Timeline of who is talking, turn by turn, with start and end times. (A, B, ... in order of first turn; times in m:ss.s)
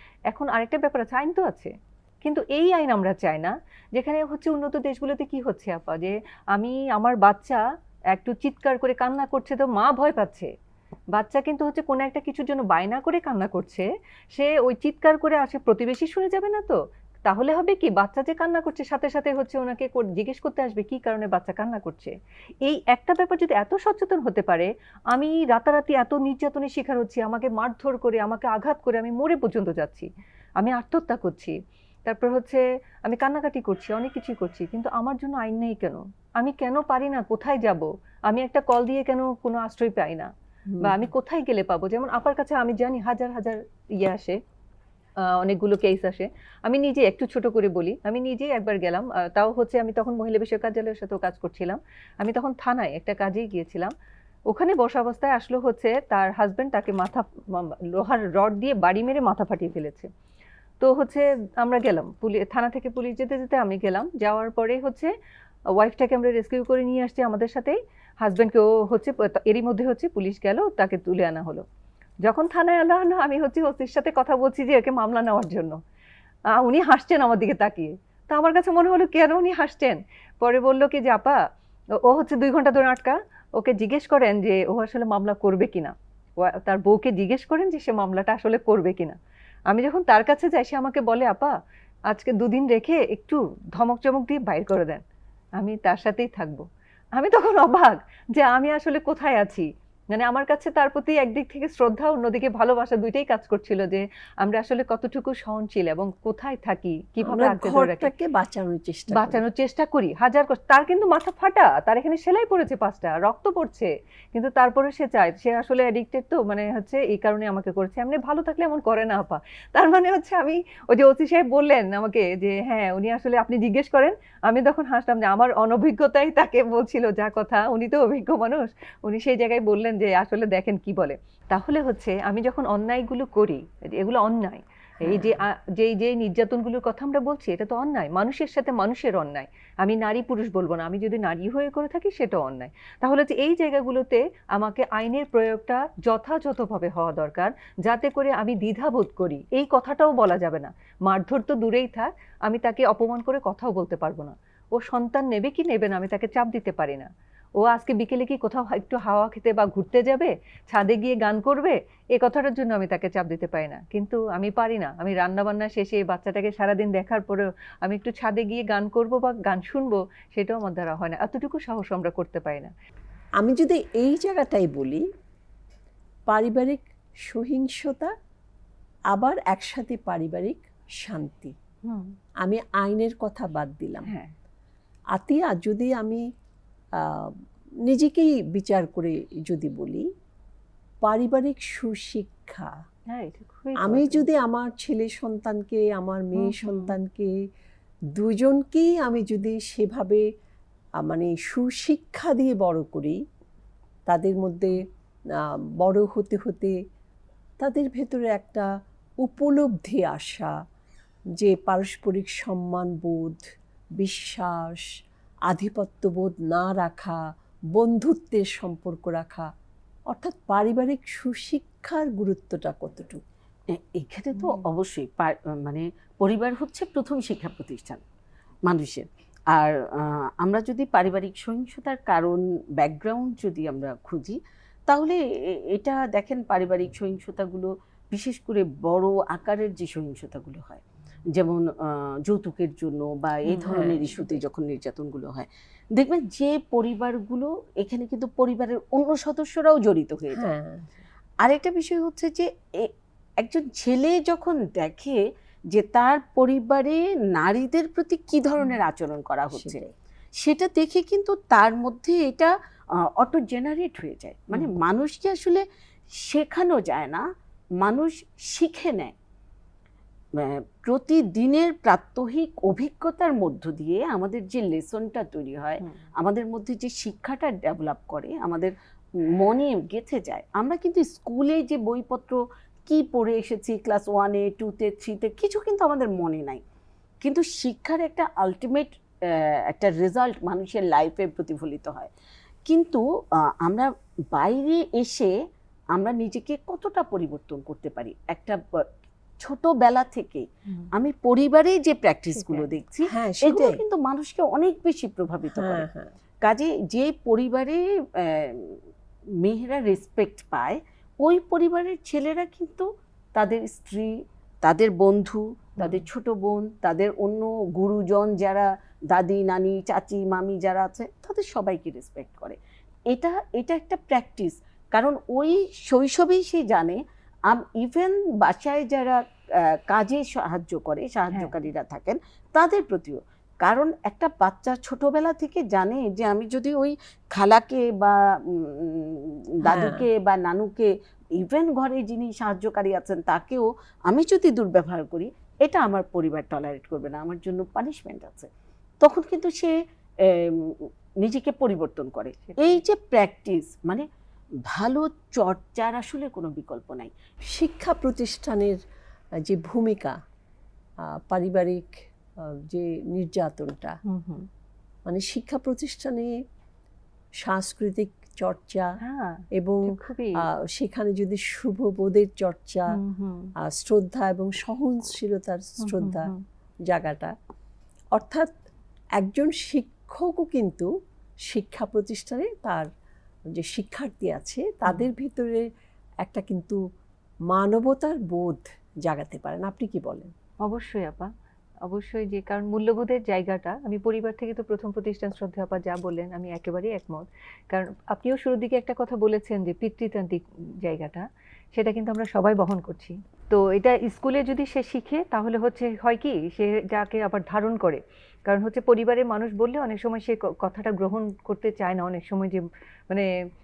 0:00.3-0:10.5 A
0:11.1-0:22.2 A
0:22.7-0:44.4 A
0:40.7-0:41.1 B
0:45.2-0:53.9 A
0:54.5-1:00.1 A
1:00.8-1:05.1 A
1:05.8-1:11.6 A
1:12.2-1:15.8 A
1:16.5-1:21.4 A
1:22.0-1:29.2 A
1:29.7-1:31.6 A
1:32.1-1:35.0 A
1:35.6-1:48.1 A
1:47.2-1:49.4 B
1:49.1-2:52.7 A
2:15.0-2:15.4 B
2:53.4-2:55.0 B
2:56.3-2:58.1 B
2:59.1-3:01.6 B
3:01.9-3:02.2 A
3:02.4-3:04.1 B
3:04.1-3:04.3 A
3:05.1-3:06.2 B
3:07.0-3:10.1 B
3:11.0-3:12.7 B
3:13.1-3:14.2 A
3:13.8-3:17.3 B
3:16.4-3:17.0 A
3:18.2-3:20.2 B
3:21.0-3:23.2 B
3:24.1-3:24.8 B
3:25.4-3:26.8 B
3:27.6-3:28.7 B
3:29.2-3:30.5 B
3:31.4-3:33.5 B
3:34.0-3:34.8 B
3:35.5-3:37.2 B
3:37.8-3:39.5 B
3:40.1-3:43.2 B
3:43.7-3:48.0 C
3:44.4-3:44.6 A
3:48.7-3:54.4 C
3:54.9-4:10.5 C
4:03.5-4:04.3 B
4:10.3-4:10.9 B
4:11.4-4:15.2 C
4:15.7-4:19.8 C
4:19.5-4:19.9 B
4:20.4-4:22.5 C
4:23.2-4:25.6 C
4:26.2-4:27.2 C
4:27.8-4:29.1 C
4:30.4-4:38.7 C
4:39.4-4:46.6 C
4:47.2-4:52.1 C
4:52.7-4:55.3 C
4:56.0-4:58.6 C
4:59.4-5:05.9 C
5:02.4-5:02.7 A
5:03.1-5:03.8 B
5:05.5-5:06.1 B
5:06.4-5:08.8 C
5:09.4-5:22.6 C
5:23.1-5:29.2 C
5:29.8-5:48.5 C
5:39.7-5:40.1 B
5:49.0-5:54.1 C
5:52.4-5:52.8 A
5:54.7-5:57.1 C
5:57.4-5:58.8 B
5:59.4-6:00.2 B
6:01.1-6:04.0 B
6:04.1-6:04.5 A
6:05.1-6:06.3 B
6:07.4-6:09.0 B
6:09.0-6:10.4 A
6:09.6-6:13.0 B
6:12.9-6:13.5 A
6:13.6-6:16.3 B
6:15.8-6:16.4 A
6:16.9-6:17.3 B
6:18.1-6:18.5 B
6:19.2-6:20.9 B
6:21.5-6:22.9 B
6:23.6-6:25.6 B
6:26.2-6:26.8 B
6:27.5-6:30.3 B
6:30.6-6:31.3 A
6:31.8-6:53.3 A